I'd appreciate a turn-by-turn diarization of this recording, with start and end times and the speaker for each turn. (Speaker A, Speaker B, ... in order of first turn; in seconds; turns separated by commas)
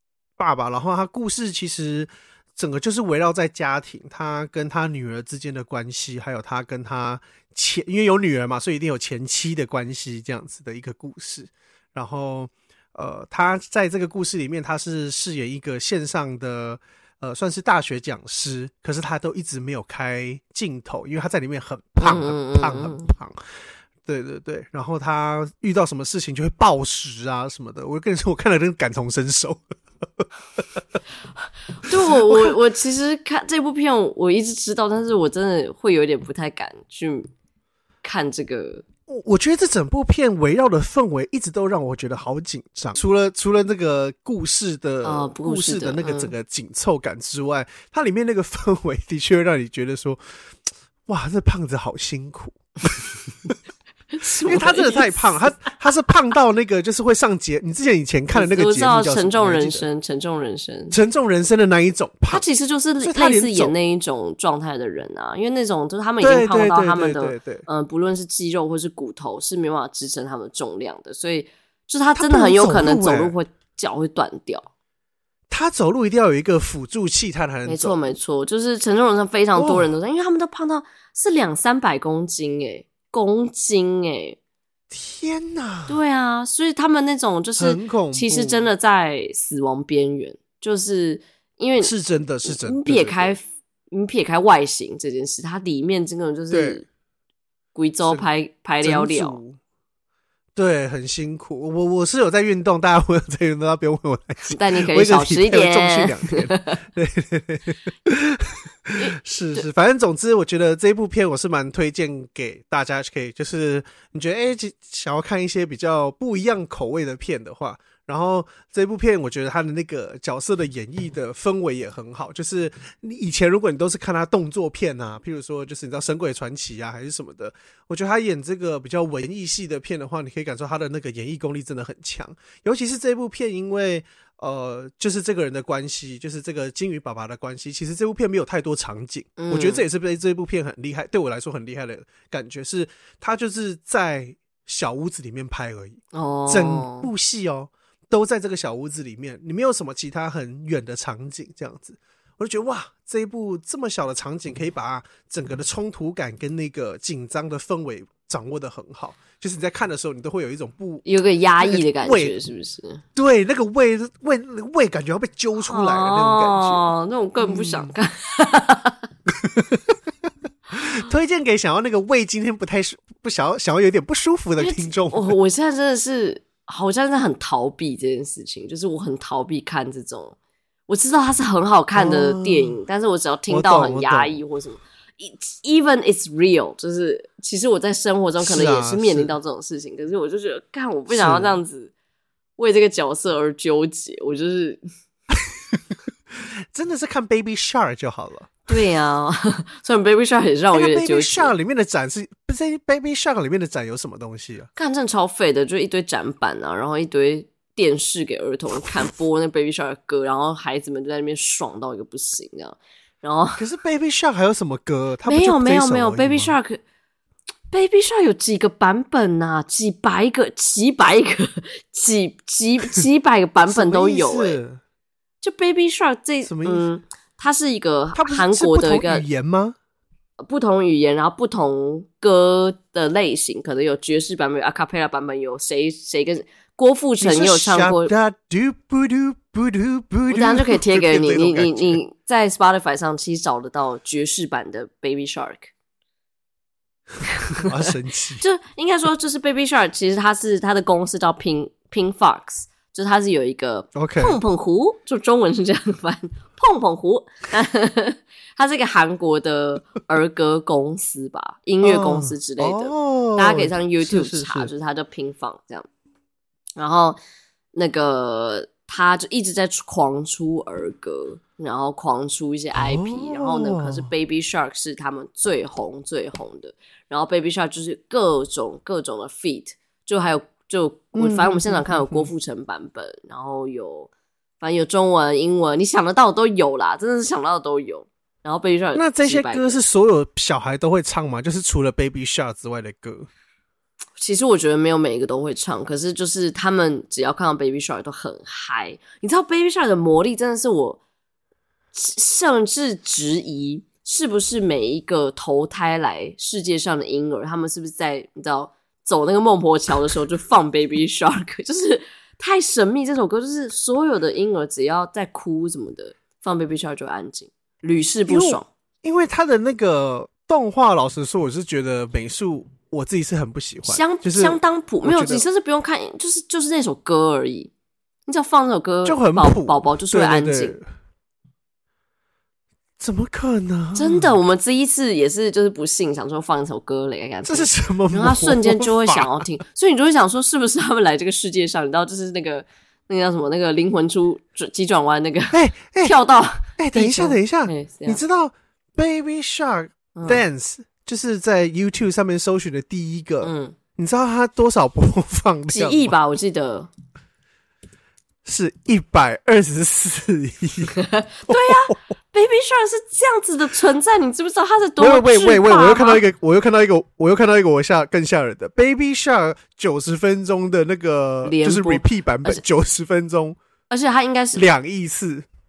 Speaker A: 0.4-23.5, Speaker B: 22.0-23.1, Speaker A: 24.1-29.6, Speaker A: 30.2-30.8, Speaker B: 31.8-37.3, Speaker A: 31.9-32.5, Speaker B: 38.0-38.9, Speaker A: 39.1-50.4, Speaker B: 45.0-46.3, Speaker A: 51.1-53.5, Speaker B: 54.1-55.5, Speaker A: 54.4-59.9, Speaker B: 58.3-61.0, Speaker A: 60.9-62.4, Speaker B: 62.3-74.7, Speaker A: 63.0-63.7, Speaker A: 66.2-67.7, Speaker A: 72.2-73.3, Speaker A: 75.5-78.0, Speaker B: 77.7-84.4, Speaker A: 79.6-79.9, Speaker A: 84.9-86.0, Speaker B: 85.9-96.9, Speaker A: 87.6-88.7, Speaker A: 91.8-93.4, Speaker A: 96.5-96.8, Speaker B: 97.8-99.4, Speaker A: 98.8-99.6, Speaker A: 100.6-161.1, Speaker B: 104.5-106.8, Speaker B: 109.0-109.7, Speaker B: 139.4-139.8, Speaker B: 146.1-147.1, Speaker B: 161.0-163.0, Speaker A: 161.6-162.3, Speaker A: 163.2-166.9, Speaker B: 165.6-169.1, Speaker A: 167.4-167.9, Speaker A: 169.3-170.0, Speaker A: 170.7-175.3, Speaker B: 174.6-180.4, Speaker B: 180.9-191.9, Speaker A: 181.9-182.8, Speaker A: 183.5-184.4, Speaker A: 188.4-189.3, Speaker A: 191.1-191.5, Speaker B: 192.6-194.8, Speaker A: 195.3-195.8, Speaker A: 196.3-198.6, Speaker B: 198.7-201.6, Speaker A: 200.7-204.7, Speaker B: 204.8-213.6, Speaker A: 213.6-216.5, Speaker B: 215.3-216.8, Speaker B: 217.7-224.6, Speaker A: 223.7-224.8, Speaker B: 225.4-229.2, Speaker A: 226.4-226.8, Speaker A: 228.2-229.8, Speaker B: 230.4-238.1, Speaker A: 237.2-242.0, Speaker B: 240.3-245.7, Speaker B: 247.3-247.7, Speaker A: 247.6-248.4, Speaker B: 248.4-265.9, Speaker A: 253.9-254.4, Speaker A: 261.8-264.7, Speaker B: 266.8-267.2, Speaker B: 267.7-289.8, Speaker A: 272.8-274.1, Speaker A: 281.1-282.3, Speaker A: 288.9-293.3, Speaker B: 294.2-301.0, Speaker B: 301.9-318.7, Speaker A: 318.3-325.4, Speaker B: 323.9-327.7, Speaker B: 328.3-330.8, Speaker A: 329.1-330.9, Speaker A: 333.0-334.3, Speaker B: 333.9-348.2, Speaker A: 337.4-339.4, Speaker A: 345.5-346.2, Speaker A: 346.8-356.1, Speaker B: 350.1-350.4, Speaker B: 353.4-353.8, Speaker B: 355.7-356.9, Speaker A: 358.4-361.0, Speaker B: 361.0-366.2, Speaker A: 361.5-362.0, Speaker A: 365.0-373.6, Speaker B: 371.4-372.6, Speaker B: 373.9-374.6, Speaker A: 374.6-375.5